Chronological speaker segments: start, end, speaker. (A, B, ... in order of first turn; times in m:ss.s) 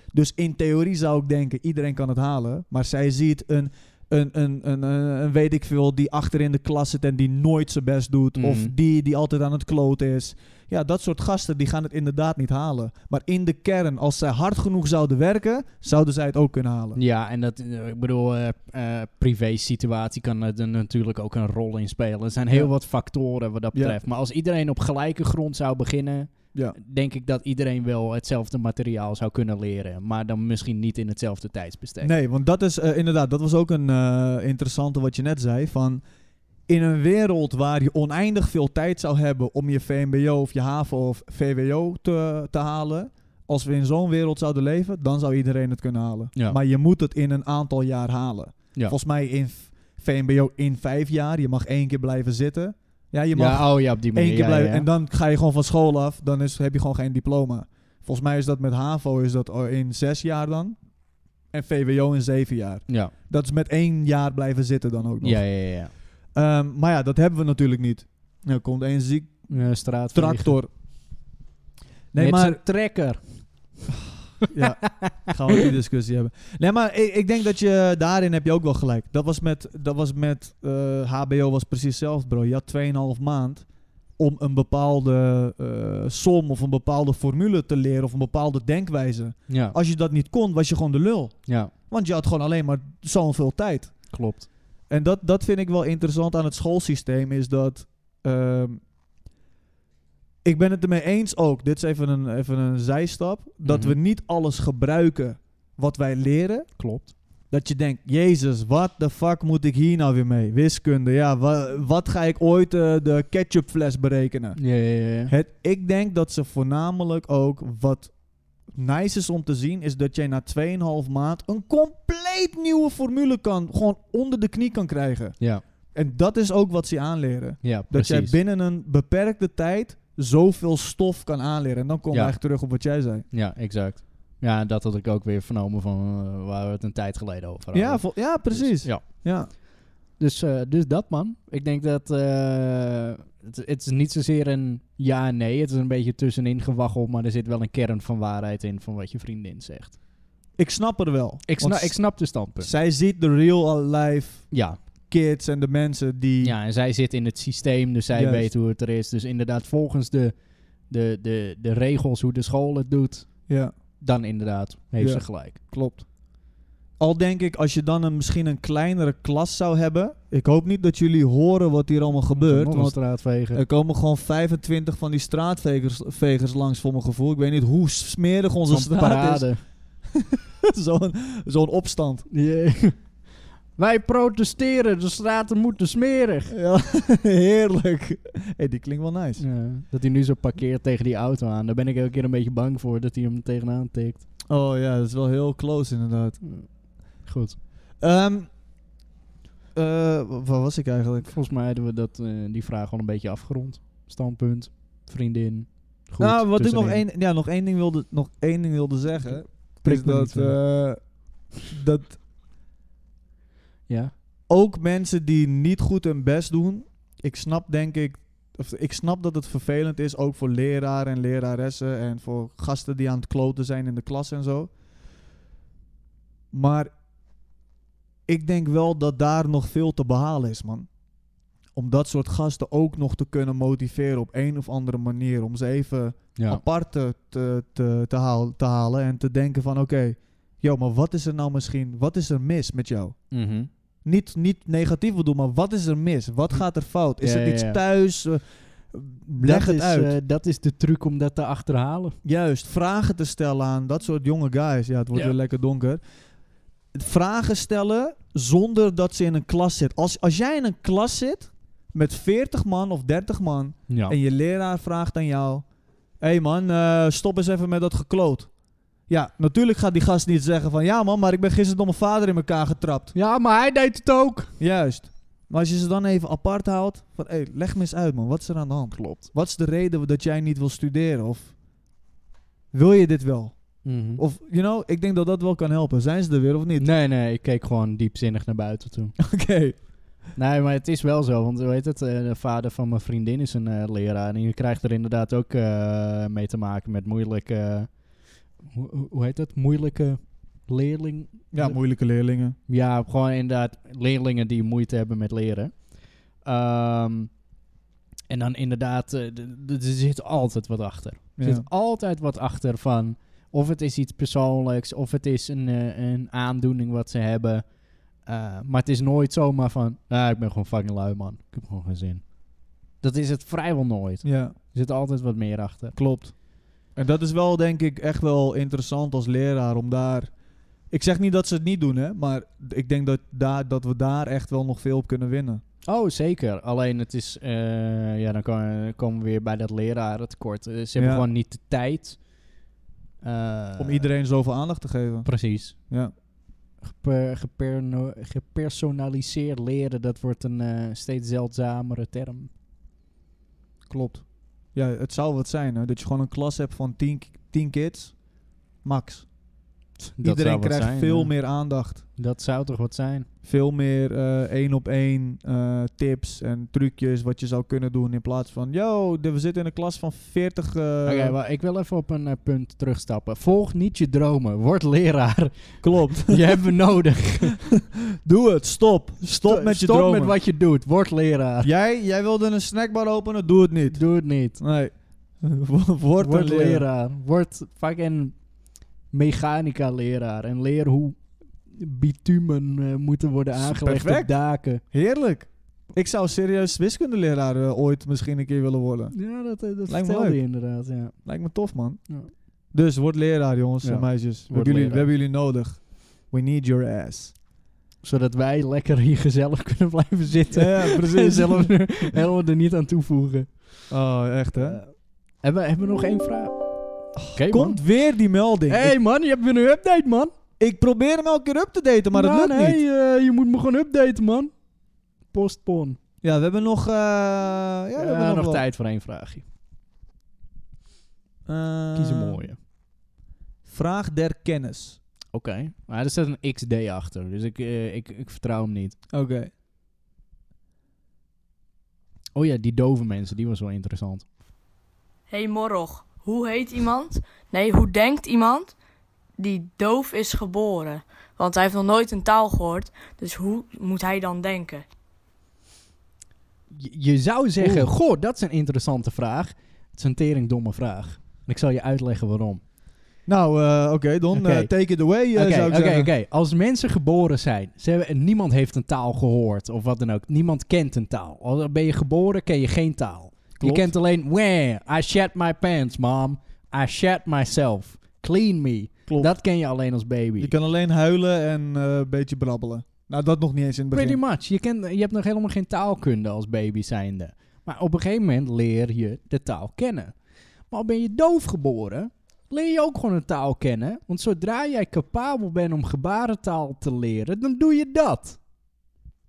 0:00.1-0:17.0 A
0:08.4-0:08.7 B
0:17.0-0:32.1 B
0:23.7-0:24.0 A
0:32.0-0:36.0 A
0:36.7-1:00.8 A
0:53.4-0:54.9 B
1:01.5-1:10.7 A
1:02.9-1:03.1 B
1:05.2-1:05.9 B
1:09.5-1:10.6 B
1:12.1-1:12.6 A
1:12.2-1:13.8 B
1:14.5-1:23.7 A
1:14.8-1:15.2 B
1:24.2-1:34.2 A
1:29.5-1:29.8 B
1:31.5-1:31.7 B
1:34.1-1:34.5 B
1:34.9-1:38.8 A
1:40.4-1:58.1 A
1:43.6-1:44.0 B
1:46.8-1:47.1 B
1:54.6-1:55.3 B
1:58.7-2:13.3 A
2:05.4-2:05.6 B
2:07.6-2:08.4 B
2:12.1-2:12.4 B
2:13.3-2:19.6 B
2:17.7-2:19.5 A
2:20.2-2:30.0 B
2:30.6-2:36.6 A
2:31.5-2:32.7 B
2:34.5-2:34.8 B
2:36.4-2:45.6 B
2:38.1-2:38.5 A
2:43.5-2:43.7 A
2:45.0-2:46.1 A
2:47.0-3:02.3 A
2:52.3-2:53.6 B
2:58.7-2:59.6 B
3:02.3-3:03.2 B
3:03.8-3:06.6 B
3:06.5-3:09.5 A
3:09.4-3:14.3 B
3:14.5-3:16.4 A
3:16.4-3:17.6 B
3:18.0-3:18.5 A
3:19.8-3:21.3 A
3:21.2-3:27.0 B
3:26.2-3:32.2 A
3:29.2-3:30.6 B
3:33.9-3:34.1 B
3:34.5-3:44.7 A
3:46.5-3:46.9 A
3:48.3-3:50.9 A
3:51.8-4:03.2 A
3:56.4-3:56.6 B
4:03.3-4:03.7 B
4:04.0-4:10.2 A
4:07.2-4:07.8 B
4:09.4-4:12.2 B
4:12.2-4:16.0 A
4:16.9-4:25.7 A
4:23.9-4:24.2 B
4:26.2-4:28.5 A
4:29.1-4:33.2 A
4:33.2-4:34.5 B
4:34.6-4:41.6 A
4:42.7-4:46.9 A
4:43.8-4:44.2 B
4:46.8-4:49.2 B
4:49.2-4:49.8 A
4:50.4-4:58.0 B
4:58.6-5:01.8 B
5:01.5-5:02.6 A
5:02.7-5:07.3 B
5:08.3-5:17.7 B
5:11.4-5:11.7 A
5:18.2-5:22.4 B
5:22.9-5:26.0 B
5:24.2-5:24.6 A
5:26.0-5:26.4 A
5:26.9-5:30.3 A
5:30.9-5:35.6 A
5:35.9-5:42.2 B
5:41.0-5:41.3 A
5:43.2-5:44.1 B
5:43.8-5:46.1 A
5:45.2-5:45.8 B
5:46.8-5:52.5 B
5:53.9-5:59.4 A
6:00.0-6:01.5 B
6:00.2-6:02.0 A
6:02.2-6:03.3 B
6:03.4-6:11.4 A
6:11.0-6:17.7 B
6:15.8-6:16.4 A
6:18.2-6:20.4 A
6:19.3-6:21.7 B
6:21.6-6:26.8 A
6:23.9-6:24.6 B
6:26.2-6:28.5 B
6:29.1-6:34.8 B
6:33.5-6:39.3 A
6:39.1-6:41.3 B
6:39.8-6:40.5 A
6:41.2-6:47.4 A
6:43.8-6:45.1 B
6:48.0-6:53.7 B
6:50.5-6:52.2 A
6:53.9-6:54.8 A
6:54.6-6:54.9 B
6:55.4-6:56.6 B
6:57.2-6:59.0 A
6:57.2-6:57.8 B
6:58.7-7:00.3 B
7:00.6-7:02.8 A
7:02.1-7:04.5 B
7:05.3-7:06.0 B
7:06.2-7:08.6 A
7:08.0-7:09.4 B
7:11.5-7:12.5 A
7:12.0-7:12.6 B
7:13.6-7:15.0 A
7:15.3-7:19.0 B
7:19.1-7:19.5 A
7:22.4-7:24.3 B
7:25.3-7:28.7 C
7:29.4-7:34.8 C
7:36.7-7:42.6 B
7:37.6-7:37.9 A
7:43.3-7:46.1 A
7:44.3-7:44.7 B
7:45.3-8:00.5 B
7:53.6-7:53.9 A
8:00.4-8:04.2 A
8:03.9-8:10.2 B
8:10.7-8:18.4 B